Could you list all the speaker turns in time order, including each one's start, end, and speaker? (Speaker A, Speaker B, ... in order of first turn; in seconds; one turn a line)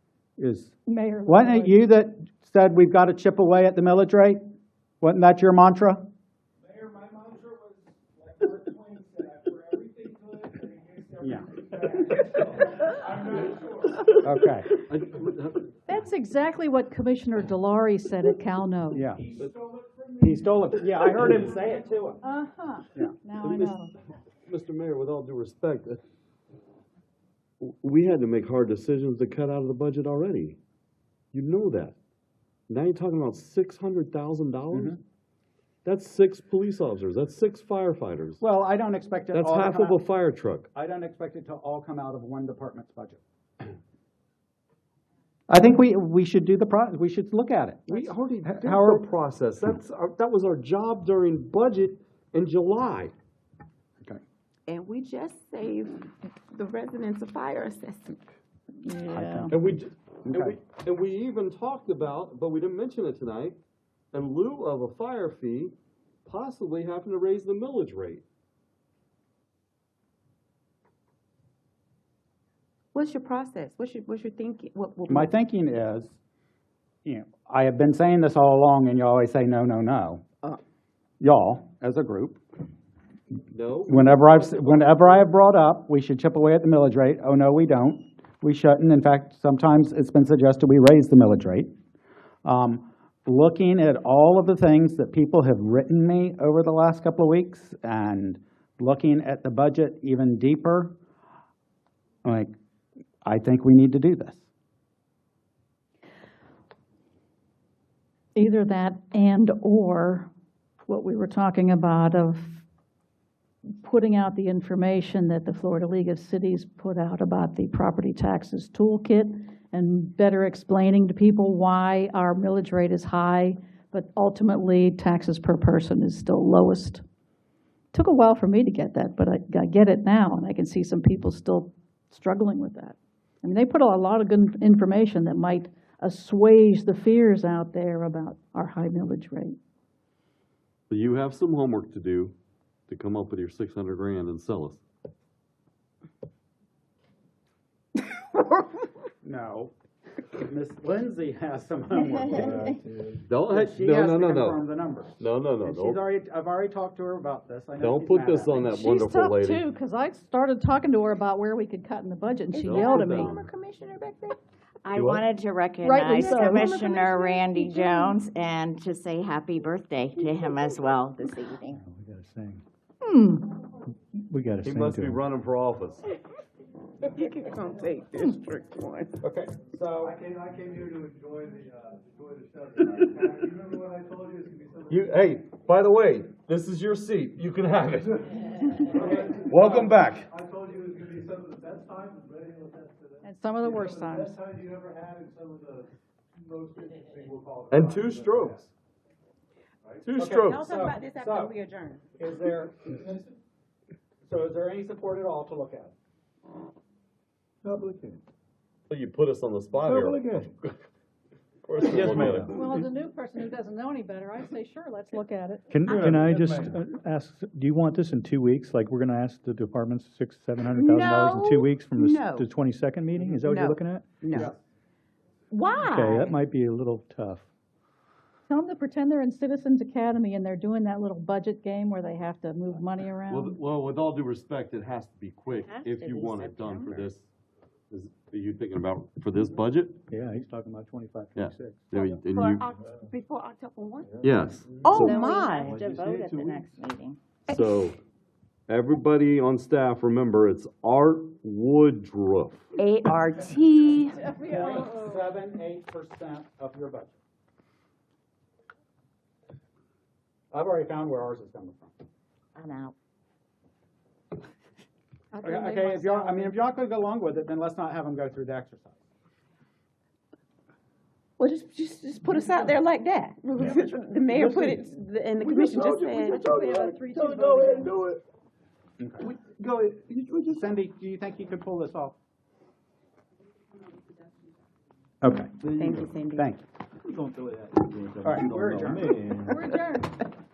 Speaker A: 0.4-4.4
Speaker B: 0.8-1.8
Speaker A: 5.0-6.1
Speaker C: 6.7-12.3
Speaker A: 11.2-12.3
Speaker C: 13.2-13.9
Speaker A: 14.1-14.7
Speaker D: 14.8-15.9
Speaker B: 15.9-19.1
Speaker A: 18.9-19.4
Speaker C: 19.5-20.1
Speaker A: 20.2-22.2
Speaker B: 22.2-23.9
Speaker D: 23.4-23.8
Speaker D: 24.4-26.0
Speaker D: 27.6-30.6
Speaker D: 31.3-32.0
Speaker D: 32.7-35.0
Speaker A: 34.7-35.0
Speaker D: 35.8-38.4
Speaker A: 38.4-40.0
Speaker D: 39.3-40.7
Speaker A: 40.7-43.2
Speaker A: 45.5-49.1
Speaker D: 47.9-53.1
Speaker E: 54.7-58.2
Speaker F: 58.9-59.5
Speaker A: 59.0-59.6
Speaker D: 59.5-63.6
Speaker A: 60.2-60.6
Speaker D: 64.1-65.7
Speaker D: 66.2-68.2
Speaker E: 72.9-75.3
Speaker A: 75.1-76.2
Speaker A: 77.0-80.2
Speaker A: 81.2-82.4
Speaker D: 83.5-85.2
Speaker A: 83.9-91.7
Speaker A: 92.4-101.0
Speaker A: 102.2-102.5
Speaker A: 103.2-104.4
Speaker B: 108.3-110.3
Speaker B: 110.8-112.6
Speaker B: 113.8-127.0
Speaker B: 127.9-139.6
Speaker D: 140.9-142.3
Speaker D: 142.9-144.8
Speaker A: 149.2-149.7
Speaker A: 150.3-152.8
Speaker C: 152.3-153.2
Speaker D: 153.3-154.7
Speaker A: 153.4-158.7
Speaker D: 155.2-156.1
Speaker D: 157.8-159.7
Speaker B: 158.6-163.4
Speaker E: 162.5-164.4
Speaker D: 162.6-163.4
Speaker F: 164.8-171.8
Speaker D: 164.9-165.2
Speaker B: 165.8-166.9
Speaker E: 165.9-168.1
Speaker B: 167.5-168.1
Speaker E: 170.2-171.5
Speaker G: 171.7-172.6
Speaker B: 173.0-173.6
Speaker G: 174.1-175.2
Speaker D: 174.6-176.1
Speaker E: 177.0-179.2
Speaker A: 179.2-180.1
Speaker C: 180.0-185.1
Speaker D: 182.9-183.3
Speaker D: 184.9-190.3
Speaker C: 188.8-198.5
Speaker B: 193.2-194.4
Speaker D: 197.7-198.7
Speaker D: 200.0-200.7
Speaker A: 200.1-201.5
Speaker E: 200.3-202.0
Speaker A: 202.2-203.2
Speaker A: 204.2-205.9
Speaker D: 208.9-210.3
Speaker G: 209.8-210.5
Speaker D: 211.7-212.6
Speaker G: 211.8-212.7
Speaker B: 212.0-215.8
Speaker G: 215.7-224.5
Speaker E: 215.9-216.6
Speaker C: 216.2-216.7
Speaker E: 220.7-222.5
Speaker E: 223.4-224.5
Speaker F: 225.5-226.3
Speaker G: 225.8-227.5
Speaker B: 228.5-233.6
Speaker D: 233.3-237.3
Speaker F: 235.6-237.1
Speaker D: 237.9-240.0
Speaker G: 240.1-241.9
Speaker D: 241.3-242.6
Speaker E: 241.9-244.2
Speaker D: 244.2-246.6
Speaker E: 244.8-245.5
Speaker F: 244.9-247.2
Speaker D: 247.5-248.0
Speaker D: 248.7-252.7
Speaker E: 252.8-253.9
Speaker F: 252.8-254.0
Speaker B: 254.0-255.3
Speaker A: 254.4-257.2
Speaker A: 260.5-261.9
Speaker F: 262.5-262.9
Speaker B: 265.3-266.6
Speaker A: 265.4-269.0
Speaker E: 271.4-276.5
Speaker C: 275.5-277.9
Speaker B: 276.3-278.0
Speaker A: 279.0-279.3
Speaker A: 280.5-282.2
Speaker A: 285.2-285.6
Speaker D: 285.6-286.1
Speaker E: 285.7-286.5
Speaker A: 286.3-286.6
Speaker G: 287.1-287.5
Speaker D: 287.6-289.5
Speaker A: 288.2-289.1
Speaker B: 289.5-290.2